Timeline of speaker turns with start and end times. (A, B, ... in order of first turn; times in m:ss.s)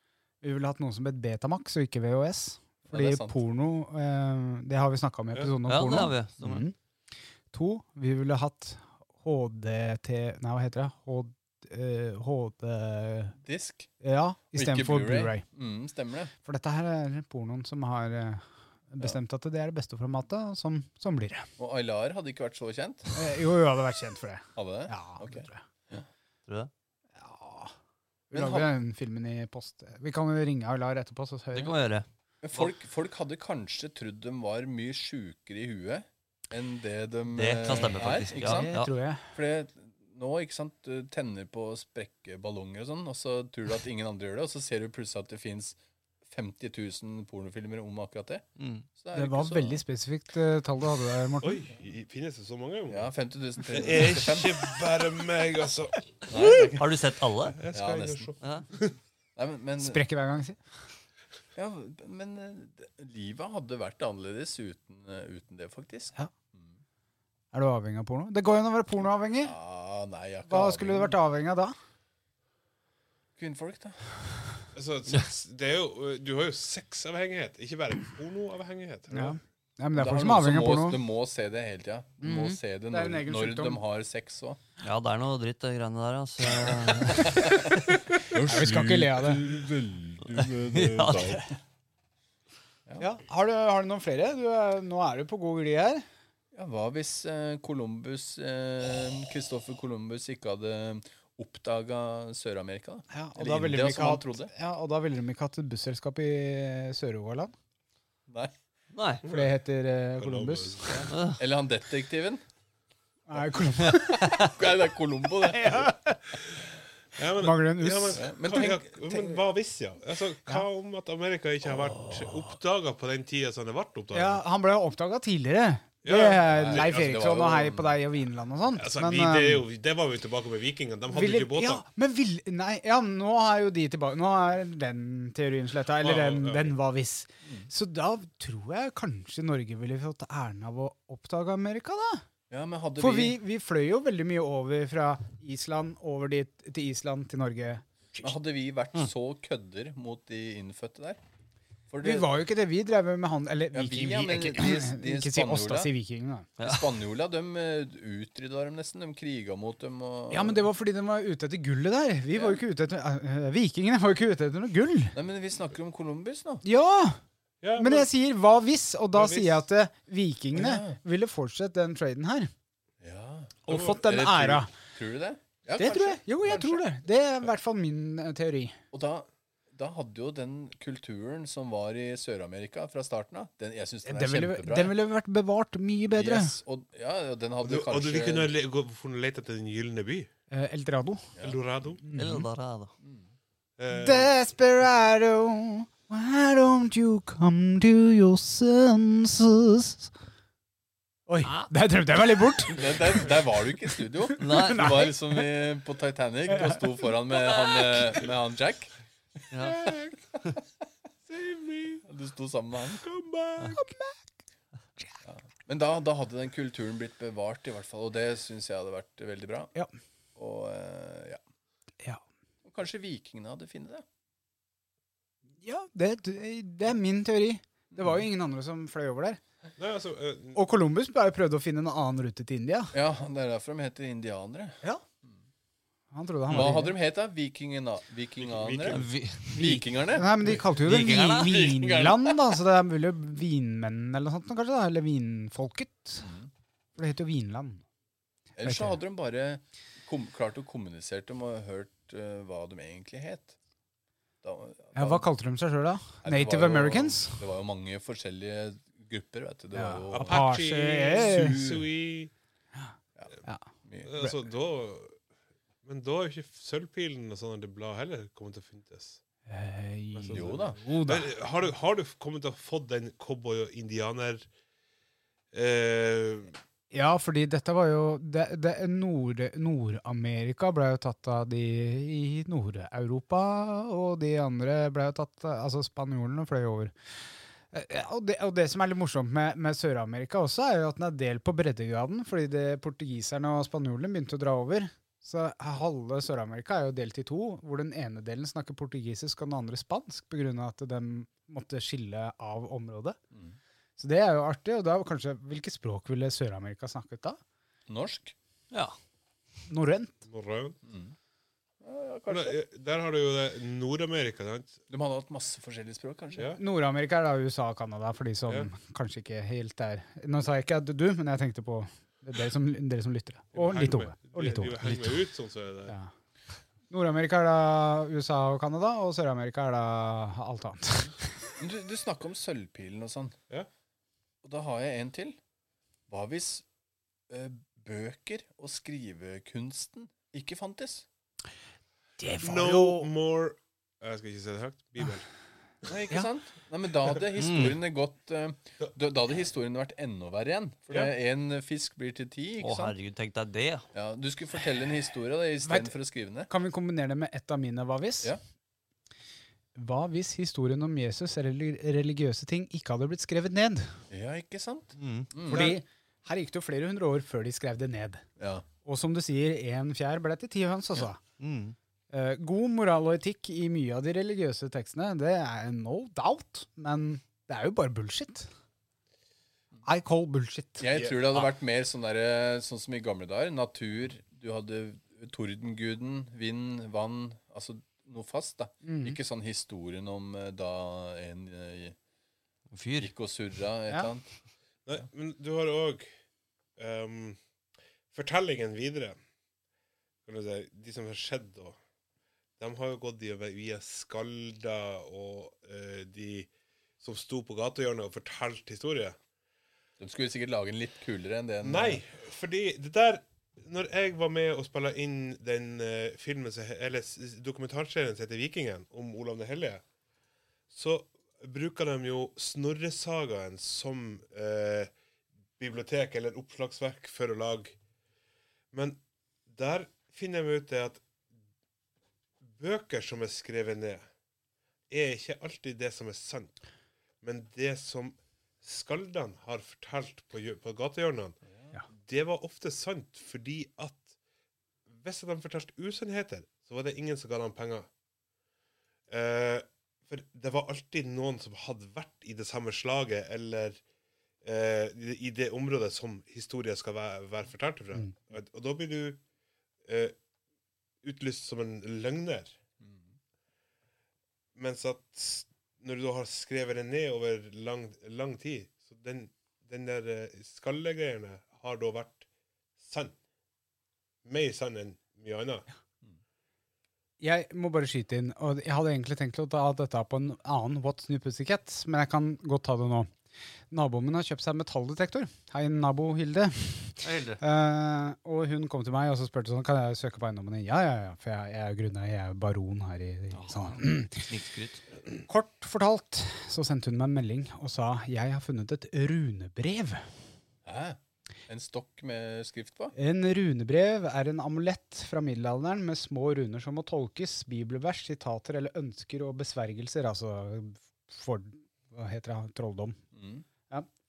0:00.4-0:06.7 A
0:02.8-0:03.4 B
0:05.7-0:06.6 C
0:07.5-0:13.4 A
0:13.4-0:13.9 B
0:14.0-0:15.4 A
0:14.5-0:16.3 B
0:16.4-0:21.5 A
0:21.6-0:23.2 B
0:23.1-0:25.6 A
0:24.5-0:26.1 B
0:27.2-0:27.7 A
0:28.3-0:31.7 A
0:28.3-0:28.7 B
0:31.5-0:32.0 C
0:32.4-0:38.7 B
0:37.3-0:38.9 C
0:37.7-0:39.2 A
0:39.3-0:48.4 B
0:48.6-0:48.9 C
0:49.0-0:49.8 B
0:49.1-0:51.7 A
0:51.4-0:53.1 D
0:52.9-0:54.8 B
0:53.7-0:56.2 D
0:56.3-0:57.0 B
0:56.4-0:57.6 C
0:57.5-0:58.9 D
0:57.7-0:58.3 B
0:58.4-0:58.6 C
0:59.4-1:00.0 B
0:59.8-1:00.6 A
1:01.5-1:06.8 B
1:07.5-1:09.5 A
1:09.4-1:11.2 B
1:10.5-1:11.7 A
1:13.4-1:14.0 B
1:14.7-1:19.4 D
1:19.1-1:21.0 A
1:19.9-1:24.6 B
1:22.2-1:23.8 A
1:24.8-1:27.8 C
1:26.6-1:31.5 B
1:28.3-1:29.4 A
1:30.4-1:31.5 C
1:33.0-1:36.0 A
1:36.5-1:44.5 B
1:43.1-1:47.5 A
1:48.3-1:48.5 B
1:48.9-1:49.2 C
1:49.2-1:49.5 D
1:49.2-1:51.1 A
1:50.2-1:51.1 D
1:50.8-1:52.4 B
1:51.1-1:51.4 C
1:53.3-1:54.5 A
1:53.9-1:55.8 B
1:55.5-1:56.2 A
1:57.2-2:04.4 D
1:57.4-1:58.7 A
1:58.1-1:59.4 B
2:04.1-2:09.6 A
2:06.0-2:07.0 D
2:06.5-2:08.0 B
2:08.8-2:11.8 D
2:11.1-2:22.2 A
2:16.0-2:16.7 D
2:17.4-2:17.7 B
2:22.5-2:23.4 B
2:23.0-2:28.3 A
2:28.2-2:31.2 B
2:31.9-2:32.3 B
2:32.0-2:36.5 A
2:33.7-2:35.9 B
2:36.6-2:36.9 C
2:36.6-2:40.6 B
2:40.3-2:45.1 A
2:42.3-2:42.6 B
2:45.1-2:46.6 B
2:46.6-2:47.2 A
2:47.6-2:48.1 D
2:47.8-2:52.5 A
2:49.1-2:49.6 D
2:50.5-2:51.0 B
2:53.0-2:56.8 B
2:53.7-2:54.7 A
2:53.7-2:54.0 D
2:55.7-2:58.8 A
2:58.9-3:04.9 B
3:04.0-3:06.6 A
3:06.1-3:08.5 B
3:07.6-3:10.3 D
3:10.5-3:11.3 A
3:11.3-3:11.6 B
3:11.4-3:12.0 D
3:12.0-3:12.5 A
3:12.2-3:12.9 C
3:13.0-3:13.3 B
3:13.8-3:14.3 D
3:13.9-3:20.1 A
3:21.3-3:23.3 A
3:22.7-3:30.4 B
3:24.3-3:25.4 A
3:24.4-3:25.1 C
3:26.5-3:27.1 A
3:29.5-3:29.9 C
3:29.6-3:30.1 D
3:31.3-3:32.0 D
3:32.0-3:33.0 B
3:33.0-3:33.8 D
3:33.6-3:34.2 A
3:35.2-3:39.7 B
3:40.4-3:41.4 B
3:42.6-3:44.0 B
3:45.6-3:49.4 A
3:47.9-3:48.2 B
3:49.8-3:50.6 D
3:50.5-3:52.9 A
3:52.9-3:55.4 B
3:56.1-3:57.0 A
3:56.5-4:00.6 B
3:58.4-3:59.0 D
3:58.9-3:59.7 C
3:59.5-4:06.3 A
4:00.8-4:01.6 C
4:01.2-4:02.6 B
4:06.2-4:06.5 B
4:07.0-4:07.8 A
4:08.6-4:13.6 B
4:08.6-4:09.0 A
4:14.4-4:15.3 B
4:14.9-4:17.4 A
4:16.2-4:20.5 B
4:19.7-4:21.6 A
4:20.1-4:22.3 D
4:21.1-4:21.9 B
4:23.2-4:24.1 B
4:24.0-4:25.2 D
4:25.8-4:29.2 D
4:29.4-4:31.3 A
4:30.1-4:34.5 D
4:30.3-4:30.8 B
4:35.5-4:36.6 D
4:36.9-4:46.9 A
4:47.7-5:03.2 A
5:03.3-5:03.6 B
5:04.0-5:07.4 A
5:07.9-5:08.3 B
5:09.7-5:10.2 A
5:10.2-5:10.8 D
5:10.8-5:11.1 B
5:11.8-5:12.6 B
5:12.3-5:14.8 D
5:14.9-5:16.6 B
5:16.6-5:25.3 A
5:23.5-5:25.9 D
5:26.9-5:31.3 A
5:31.6-5:33.4 B
5:34.4-5:35.4 B
5:36.1-5:36.6 B
5:37.3-5:41.0 B
5:42.2-5:43.1 A
5:42.4-5:45.3 D
5:45.9-5:52.9 B
5:47.4-5:47.8 C
5:52.6-5:53.9 C
5:53.9-5:56.5 B
5:55.6-5:55.9 A
5:56.5-5:58.3 A
5:59.8-6:03.9 A
6:04.1-6:05.8 B
6:05.0-6:05.3 C
6:05.5-6:08.2 A
6:08.4-6:08.6 B
6:08.8-6:11.2 A
6:11.4-6:11.8 C
6:12.1-6:18.5 A
6:19.8-6:20.9 A
6:20.8-6:32.0 B
6:20.9-6:21.2 D
6:28.8-6:29.2 A
6:32.7-6:33.1 C
6:33.0-6:34.3 B
6:34.9-6:36.1 D
6:36.8-6:37.4 D
6:38.1-6:39.2 D
6:40.2-6:41.8 D
6:42.6-6:46.5 D
6:47.0-6:49.2 D
6:50.0-6:52.0 B
6:51.6-6:59.8 D
7:00.7-7:04.9 D
7:05.6-7:07.8 D
7:08.7-7:11.0 D
7:12.5-7:14.0 D
7:14.9-7:16.6 D
7:17.2-7:21.4 D
7:21.9-7:24.1 D
7:24.9-7:27.9 D
7:29.1-7:33.8 D
7:34.4-7:39.2 D
7:39.8-7:40.1 D
7:41.0-7:42.6 D
7:42.8-7:43.1 B
7:44.6-7:52.2 D
7:52.8-7:53.2 D
7:54.2-7:55.6 D
7:57.2-8:03.1 A
8:03.7-8:14.2 A
8:07.0-8:07.4 C
8:13.3-8:14.8 C
8:15.3-8:20.0 A
8:20.6-8:22.9 B
8:22.9-8:33.0 A
8:33.1-8:33.4 B